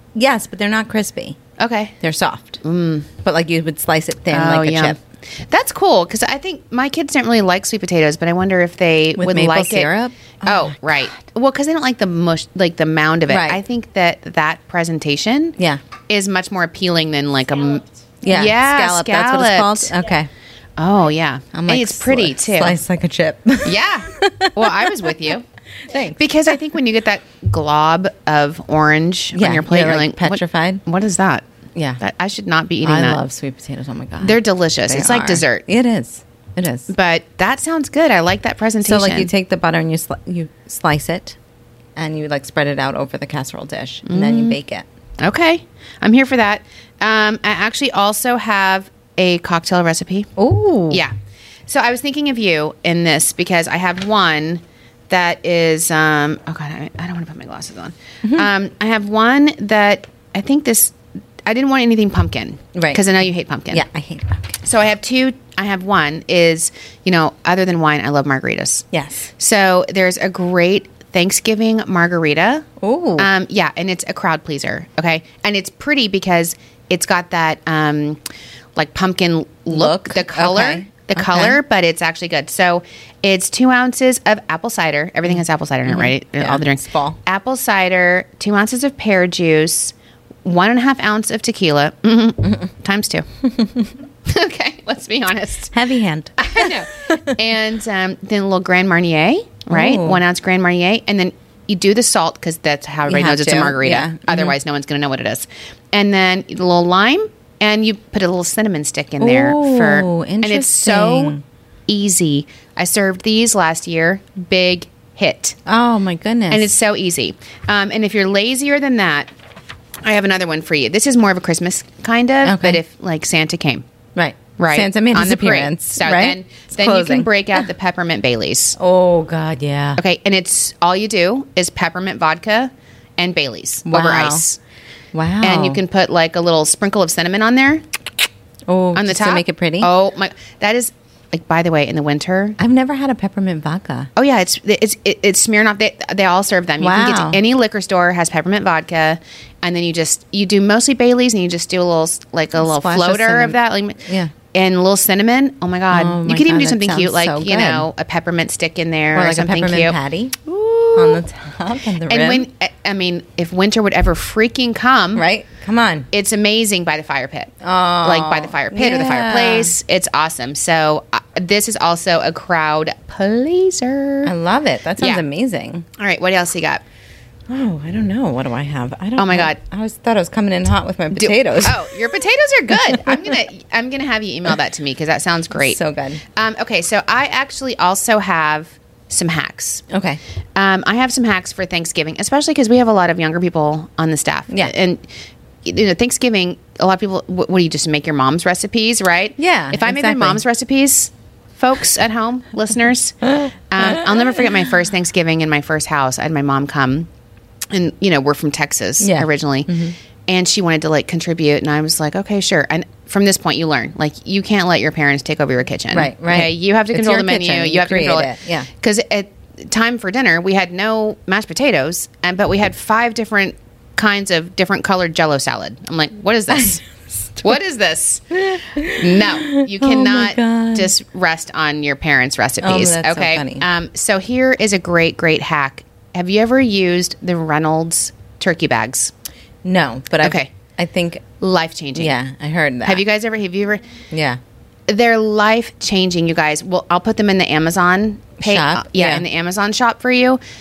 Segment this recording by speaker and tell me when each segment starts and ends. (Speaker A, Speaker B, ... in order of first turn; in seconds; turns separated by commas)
Speaker A: 0.1-1.4, Speaker B: 1.6-1.9, Speaker A: 2.0-2.6, Speaker B: 2.6-3.1, Speaker A: 3.2-5.0, Speaker B: 4.3-9.9, Speaker A: 9.2-10.7, Speaker B: 10.4-15.6, Speaker A: 13.3-13.6, Speaker B: 16.1-19.9, Speaker A: 18.2-20.3, Speaker B: 20.8-22.8, Speaker A: 21.5-25.1, Speaker B: 23.6-25.4, Speaker A: 25.9-26.5, Speaker B: 26.1-31.4, Speaker A: 29.3-30.8, Speaker A: 31.7-32.0, Speaker B: 32.0-33.2, Speaker A: 32.8-36.9, Speaker B: 34.2-35.6, Speaker B: 36.9-39.3, Speaker A: 38.8-41.4, Speaker A: 42.0-44.9, Speaker B: 44.0-44.6, Speaker B: 45.2-50.3, Speaker A: 50.4-51.0, Speaker B: 51.7-63.8, Speaker A: 58.2-58.5, Speaker A: 62.7-63.0, Speaker A: 63.7-64.6, Speaker B: 64.6-78.2, Speaker A: 68.9-69.3, Speaker A: 72.8-73.3, Speaker B: 78.8-93.2, Speaker A: 79.7-81.6, Speaker A: 85.3-87.2, Speaker A: 93.4-93.9, Speaker B: 94.2-95.8, Speaker A: 95.7-97.3, Speaker B: 96.4-111.3, Speaker A: 99.7-100.2, Speaker A: 103.1-104.5, Speaker A: 109.2-111.4, Speaker B: 111.9-115.5, Speaker A: 115.6-116.7, Speaker B: 116.5-119.3, Speaker B: 120.0-123.8, Speaker A: 122.4-122.8, Speaker A: 124.2-127.7, Speaker B: 124.6-128.8, Speaker A: 128.8-130.0, Speaker B: 130.0-134.6, Speaker A: 133.8-134.4, Speaker A: 135.1-135.8, Speaker B: 135.4-137.8, Speaker A: 138.7-139.9, Speaker B: 138.9-142.6, Speaker A: 142.6-144.1, Speaker B: 144.2-161.2, Speaker A: 146.8-147.4, Speaker A: 152.6-154.3, Speaker A: 155.9-157.9, Speaker A: 159.1-160.4, Speaker A: 160.9-162.5, Speaker B: 162.1-165.2, Speaker A: 165.2-166.1, Speaker B: 166.1-174.3, Speaker A: 167.6-169.7, Speaker A: 174.2-175.8, Speaker B: 175.0-175.2, Speaker B: 176.0-176.8, Speaker A: 177.5-181.9, Speaker B: 179.2-179.6, Speaker B: 181.1-185.8, Speaker A: 182.9-183.3, Speaker A: 185.5-186.2, Speaker B: 186.3-189.8, Speaker A: 189.9-190.2, Speaker B: 190.6-195.1, Speaker B: 195.6-207.1, Speaker A: 199.4-200.4, Speaker A: 203.4-204.5, Speaker B: 207.7-226.8, Speaker A: 209.0-209.9, Speaker A: 215.9-218.7, Speaker A: 226.5-227.5, Speaker B: 227.4-239.1, Speaker A: 228.3-230.9, Speaker A: 232.6-233.6, Speaker A: 239.6-241.2, Speaker B: 240.2-240.5, Speaker B: 241.4-242.1, Speaker A: 241.9-243.0, Speaker B: 242.8-243.8, Speaker A: 244.1-244.4, Speaker B: 244.9-250.4, Speaker A: 248.4-249.2